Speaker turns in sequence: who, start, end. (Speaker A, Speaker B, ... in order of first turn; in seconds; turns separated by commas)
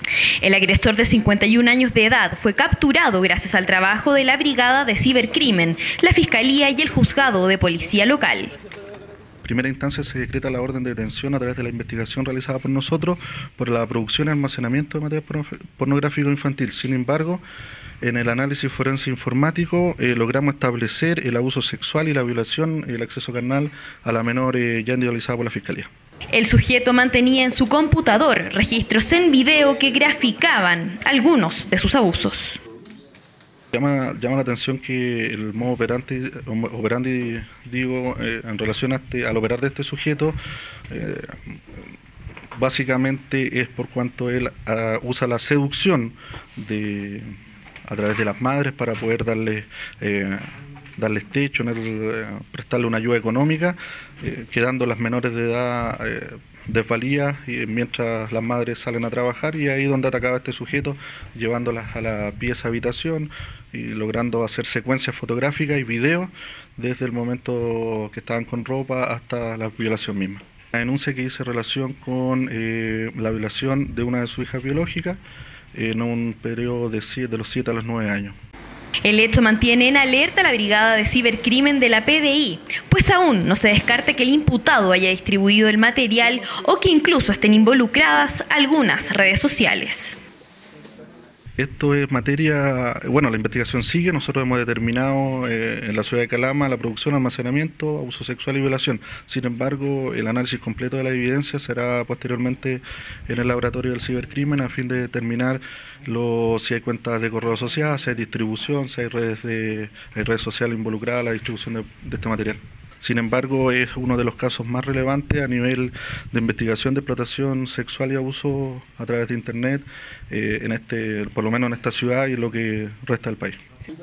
Speaker A: 0.4-8.6, Speaker B: 9.4-17.4, Speaker B: 18.0-25.9, Speaker A: 26.3-32.6, Speaker B: 33.7-40.4, Speaker B: 40.9-41.8, Speaker B: 42.5-47.4, Speaker B: 47.9-75.2, Speaker B: 75.7-78.3, Speaker A: 79.0-90.2, Speaker B: 91.6-123.6